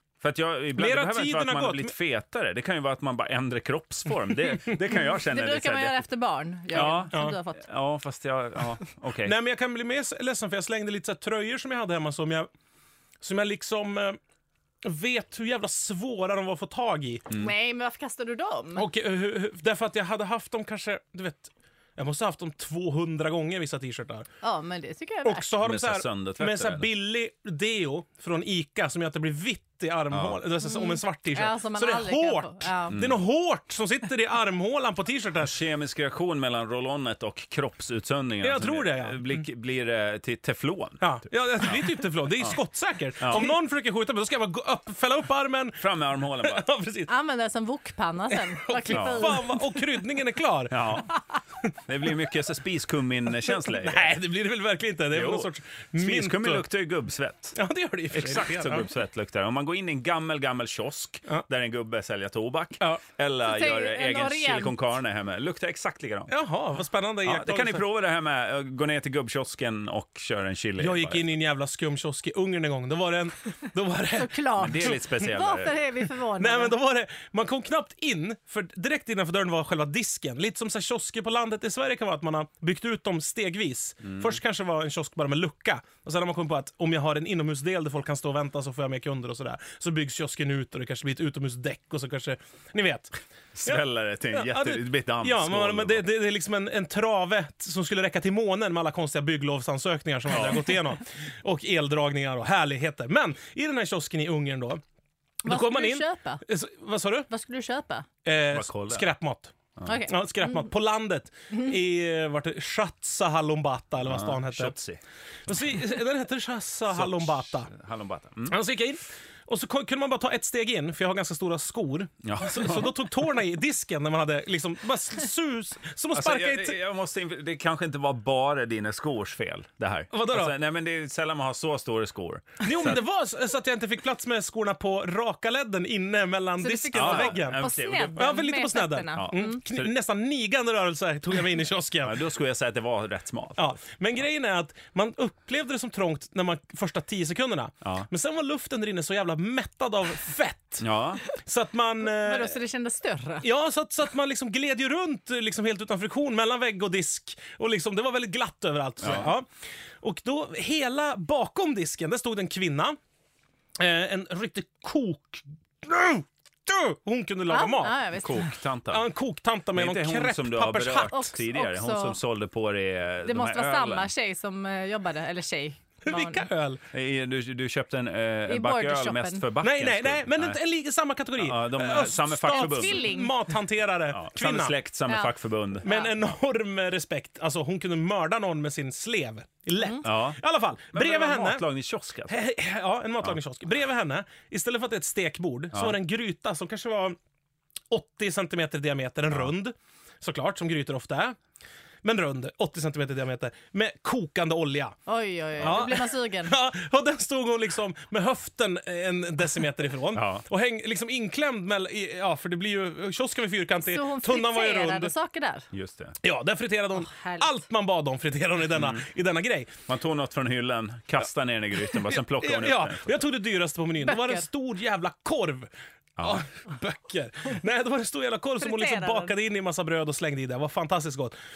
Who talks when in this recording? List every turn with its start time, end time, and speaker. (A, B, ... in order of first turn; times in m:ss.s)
0:00.2-0:06.0 A
0:00.8-0:01.9 B
0:05.1-0:07.6 C
0:06.7-0:09.3 A
0:09.2-0:12.5 B
0:13.2-0:14.2 B
0:14.8-0:17.3 B
0:17.3-0:18.8 C
0:18.8-0:24.3 B
0:24.4-0:25.4 C
0:25.2-0:35.5 B
0:25.6-0:26.9 A
0:30.1-0:30.4 A
0:30.6-0:33.0 C
0:32.9-0:33.2 A
0:35.4-0:41.8 A
0:38.4-0:39.4 B
0:41.0-0:45.8 B
0:43.2-0:43.5 A
0:45.8-0:46.7 A
0:46.4-0:47.1 B
0:47.1-0:49.8 C
0:48.3-0:51.0 B
0:48.9-0:49.4 A
0:50.7-0:51.1 A
0:51.9-0:54.1 A
0:53.4-0:56.6 B
0:55.1-0:57.6 A
0:57.5-0:58.9 B
0:58.1-1:06.3 A
1:03.4-1:04.8 C
1:06.3-1:07.8 B
1:07.2-1:11.2 A
1:10.8-1:14.3 B
1:14.1-1:16.7 C
1:14.6-1:15.8 A
1:16.4-1:33.1 B
1:24.0-1:24.4 A
1:33.5-1:36.0 A
1:33.6-1:44.8 B
1:40.3-1:40.8 A
1:45.4-1:46.4 C
1:45.4-1:47.3 B
1:47.3-1:48.1 C
1:48.2-1:54.8 B
1:48.5-1:49.1 A
1:49.8-1:50.7 C
1:54.0-1:55.0 A
1:55.5-1:57.7 B
1:56.9-1:58.5 A
1:58.5-2:06.8 B
2:02.2-2:02.9 A
2:06.1-2:13.0 A
2:10.1-2:10.5 B
2:12.6-2:22.2 B
2:16.6-2:19.6 C
2:16.9-2:18.2 A
2:19.1-2:19.9 A
2:22.0-2:23.7 A
2:23.6-2:30.9 B
2:30.8-2:31.2 A
2:31.4-2:32.6 B
2:32.0-2:33.5 C
2:33.4-2:43.0 B
2:39.0-2:39.3 A
2:43.8-2:48.0 B
2:47.5-2:48.6 C
2:48.1-2:49.0 A
2:48.9-2:51.4 B
2:49.7-2:54.1 A
2:51.0-2:52.2 C
2:53.2-2:56.5 C
2:56.0-2:56.8 B
2:56.9-3:00.6 A
2:58.4-2:59.4 C
2:59.6-3:04.7 B
3:01.4-3:03.1 A
3:02.5-3:03.4 C
3:04.1-3:05.9 A
3:05.1-3:06.1 C
3:05.8-3:11.6 B
3:09.8-3:10.0 C
3:10.0-3:10.4 A
3:10.9-3:12.4 A
3:12.3-3:17.2 B
3:17.9-3:21.4 B
3:22.0-3:25.0 B
3:25.0-3:26.6 C
3:25.6-3:25.9 A
3:25.6-3:35.1 B
3:30.1-3:30.4 A
3:33.8-3:35.7 C
3:35.7-3:36.1 A
3:36.2-3:39.7 B
3:37.0-3:37.5 C
3:38.7-3:39.0 A
3:39.9-3:43.2 A
3:42.4-3:45.7 B
3:44.0-3:44.4 C
3:46.2-3:46.4 A
3:46.2-3:51.3 B
3:48.6-3:49.3 C